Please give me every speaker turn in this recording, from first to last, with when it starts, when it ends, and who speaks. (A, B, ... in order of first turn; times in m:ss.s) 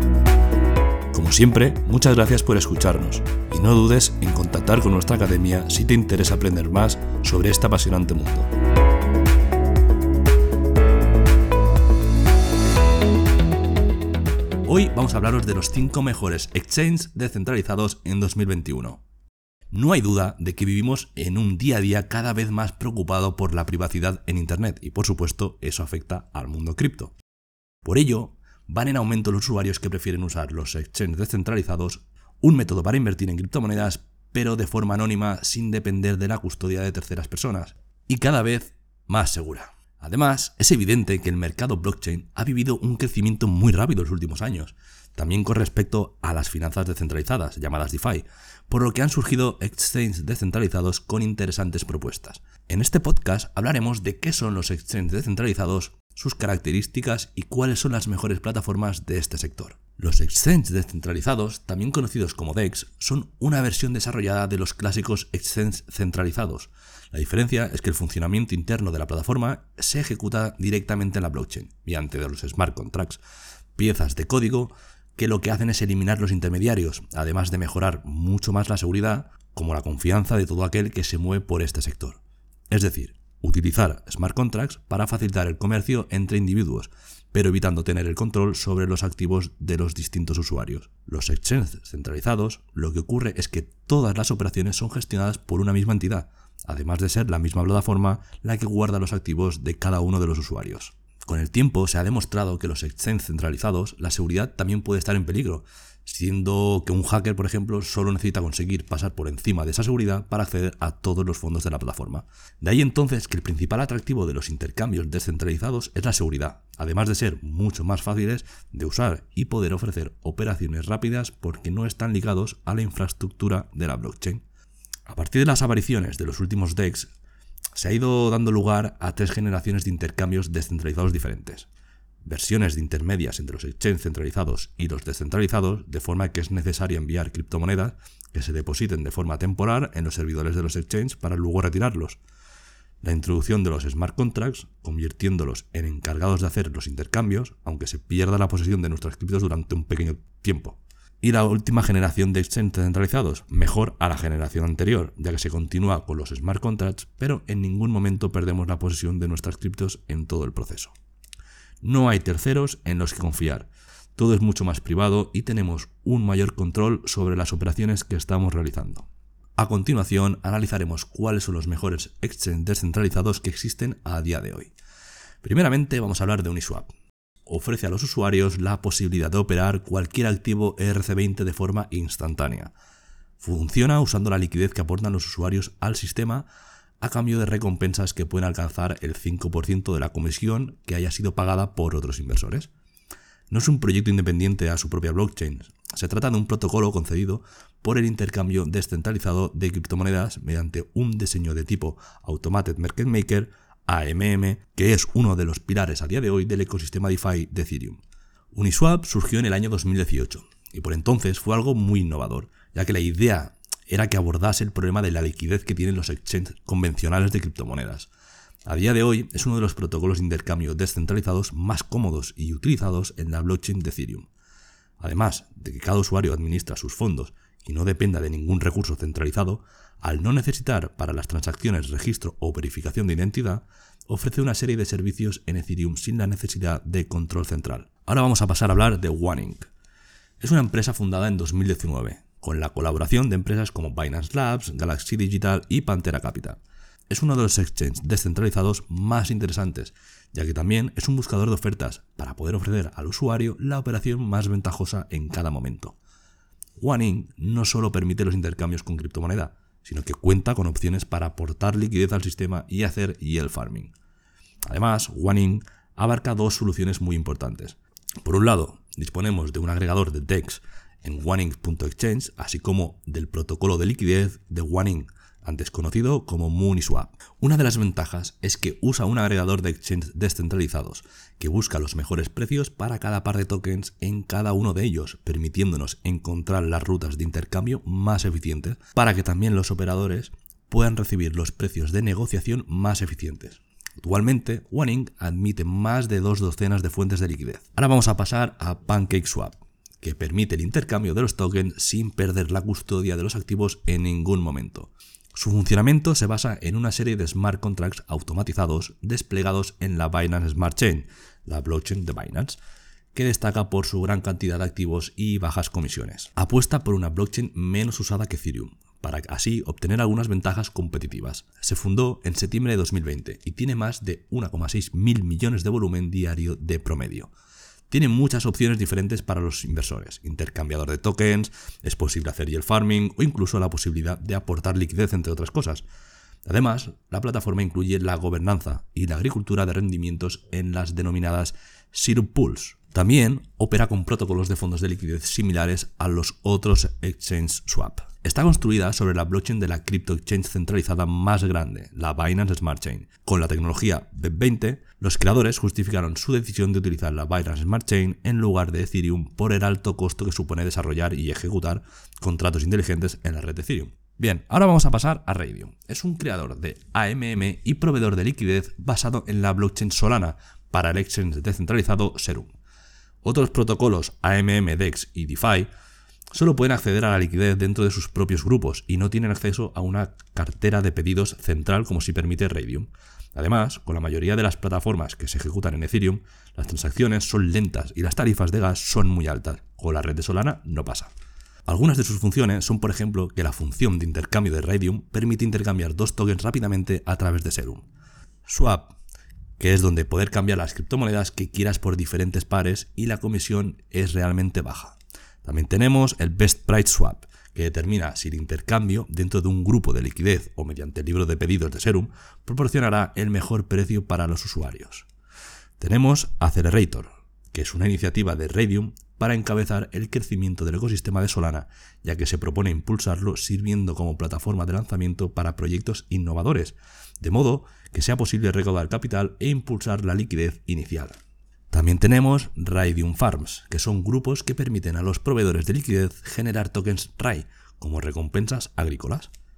0:01.1-0:08.5 A
0:14.6-0:19.0 A
0:19.7-0:27.2 A
0:27.8-1:13.2 A
1:13.8-2:04.4 A
2:05.1-2:07.1 A
2:07.8-2:11.7 A
2:12.2-2:22.2 A
2:23.0-2:41.0 A
2:41.8-2:54.7 A
2:55.4-2:56.9 A
2:57.5-3:02.7 A
3:03.4-3:06.5 A
3:07.0-3:12.7 A
3:13.5-3:28.0 A
3:28.5-3:38.1 A
3:38.7-3:44.3 A
3:45.0-3:59.7 A
4:00.4-4:16.0 A
4:16.8-4:23.9 A
4:24.7-5:12.6 A
5:13.1-5:27.3 A
5:27.9-5:35.8 A
5:36.5-6:12.6 A
6:13.2-6:15.7 A
6:16.3-6:31.1 A
6:31.7-6:37.9 A
6:38.4-6:39.0 A
6:39.6-6:55.1 A
6:55.8-7:11.2 A
7:11.7-7:19.3 A